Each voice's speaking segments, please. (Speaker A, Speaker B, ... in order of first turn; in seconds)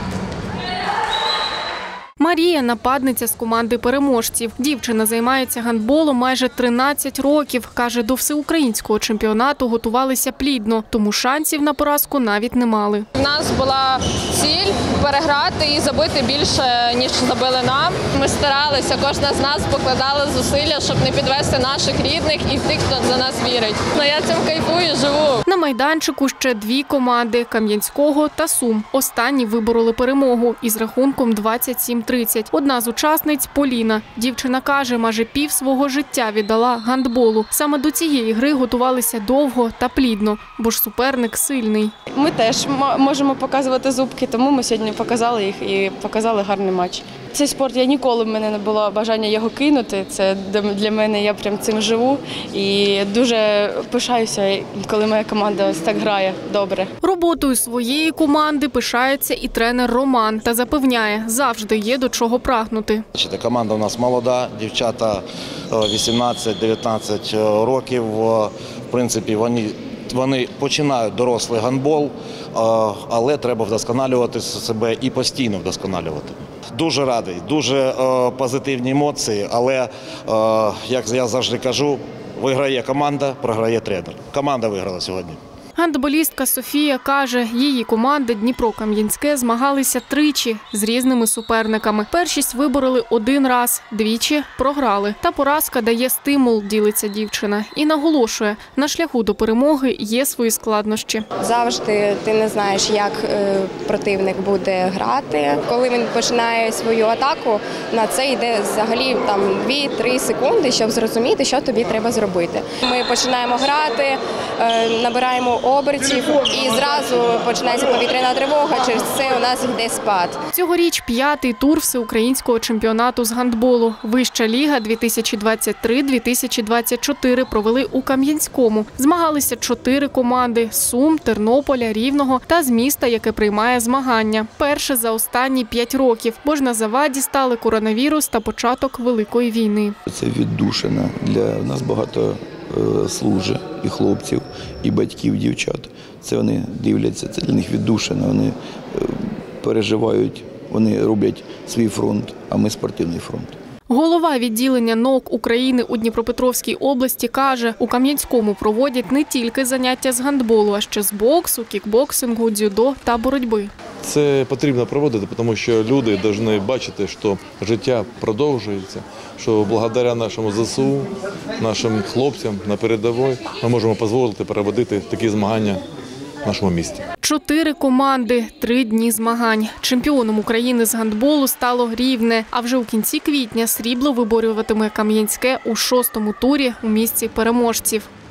Speaker A: 2.2-13.1, 25.5-41.9, 57.0-63.0, 85.8-101.3, 120.5-139.9, 153.9-163.7, 177.2-188.1
Speaker B: 13.2-25.4
Speaker C: 42.1-56.9
Speaker D: 63.1-85.4
Speaker E: 101.4-120.4
Speaker F: 140.1-153.6
Speaker G: 164.0-175.8, 176.4-177.0